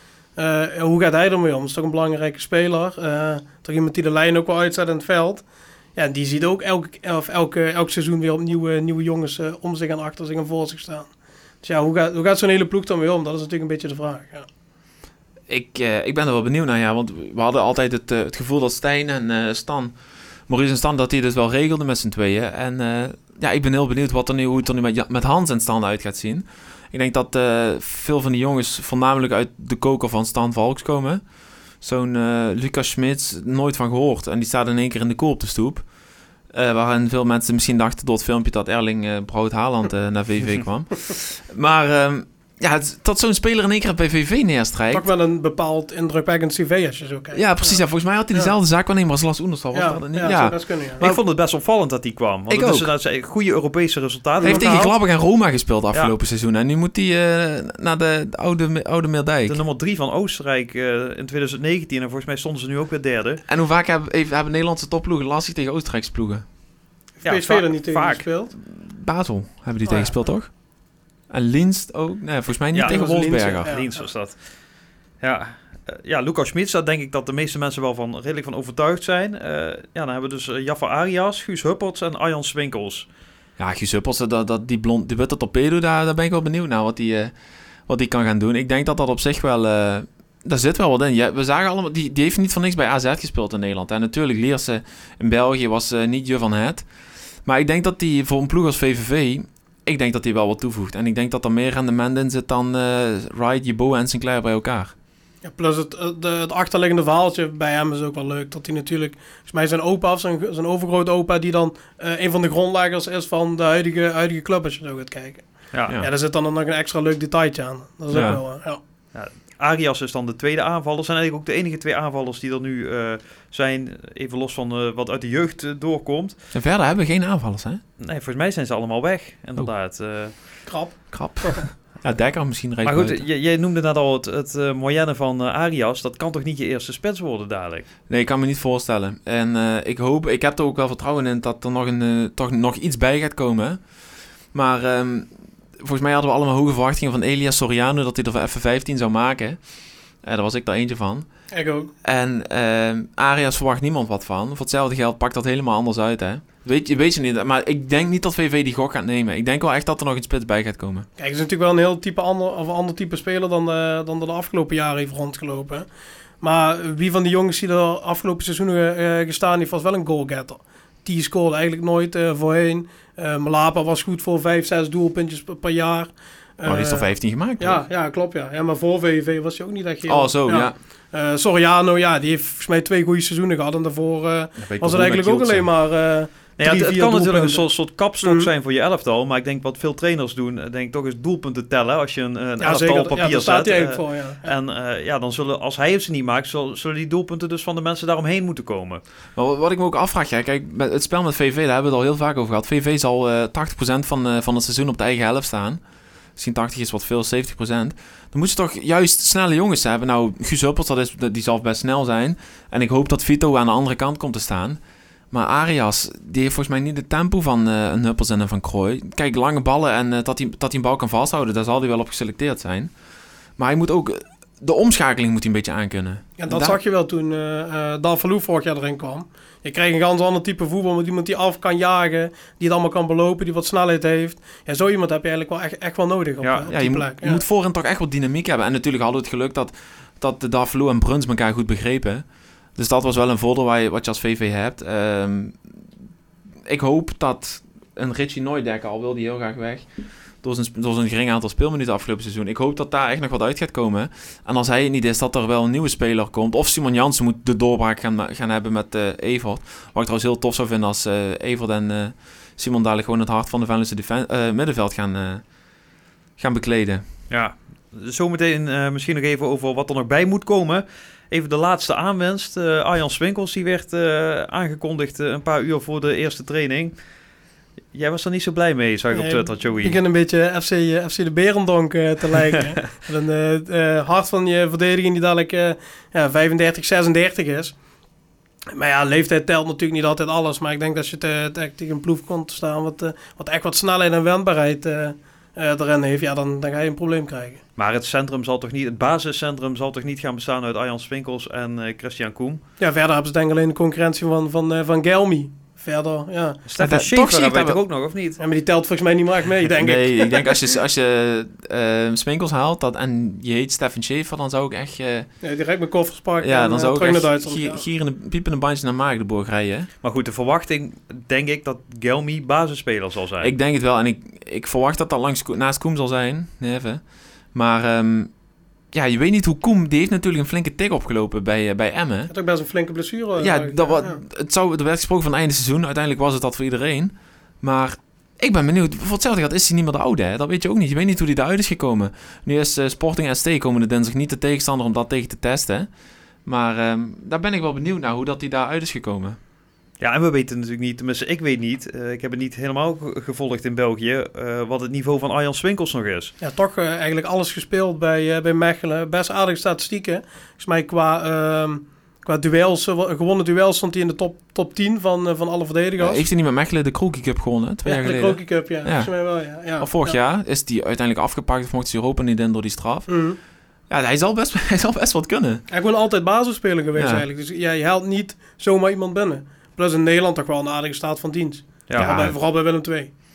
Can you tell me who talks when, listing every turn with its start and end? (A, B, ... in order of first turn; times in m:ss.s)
0:00.4-0:11.1 A
0:11.6-0:14.5 A
0:15.5-0:45.1 B
0:44.9-0:47.8 A
0:47.3-0:51.2 B
0:49.7-0:51.0 A
0:51.0-0:54.9 C
0:52.5-0:52.9 B
0:54.4-0:54.9 A
0:54.4-0:59.6 B
0:59.4-1:03.4 C
1:03.5-1:06.5 B
1:07.2-1:08.5 A
1:07.2-1:08.3 C
1:08.7-1:13.8 B
1:09.8-1:10.3 A
1:12.7-1:23.1 C
1:12.9-1:14.1 A
1:23.6-1:27.4 B
1:27.9-1:36.9 B
1:37.4-1:44.9 B
1:45.4-1:58.8 A
1:58.1-1:58.4 B
1:59.1-2:06.4 C
2:06.5-2:07.8 B
2:08.0-2:10.6 C
2:10.6-2:11.6 A
2:11.1-2:13.2 B
2:12.8-2:17.9 C
2:18.1-2:31.5 B
2:31.5-2:31.9 A
2:32.0-2:41.1 B
2:41.2-2:45.8 A
2:46.4-3:08.5 A
2:56.6-2:57.8 B
3:00.0-3:00.8 B
3:04.6-3:05.7 B
3:06.6-3:19.0 C
3:12.6-3:14.5 A
3:19.3-3:25.8 B
3:26.3-3:34.8 B
3:35.3-3:43.0 B
3:43.6-3:46.8 B
3:46.4-3:57.4 A
3:56.4-3:56.7 C
3:56.7-4:05.7 B
4:06.6-4:27.0 B
4:27.3-4:37.2 C
4:37.9-4:40.0 C
4:39.1-4:47.8 A
4:48.7-4:57.6 A
4:57.8-5:02.6 C
5:02.8-5:06.6 A
5:06.6-5:08.4 C
5:06.8-5:07.8 B
5:08.4-5:10.5 A
5:09.8-5:15.3 B
5:15.4-5:17.8 A
5:16.4-5:19.9 B
5:20.0-5:23.5 C
5:23.4-5:28.4 B
5:28.9-5:32.3 B
5:32.3-5:34.2 A
5:33.4-5:45.9 B
5:46.4-5:49.4 B
5:50.0-5:56.3 C
5:56.4-6:06.2 A
6:06.0-6:15.6 B
6:07.8-6:10.2 A
6:13.1-6:13.4 A
6:15.7-6:23.1 A
6:17.0-6:17.2 B
6:21.9-6:22.3 C
6:21.9-6:22.4 B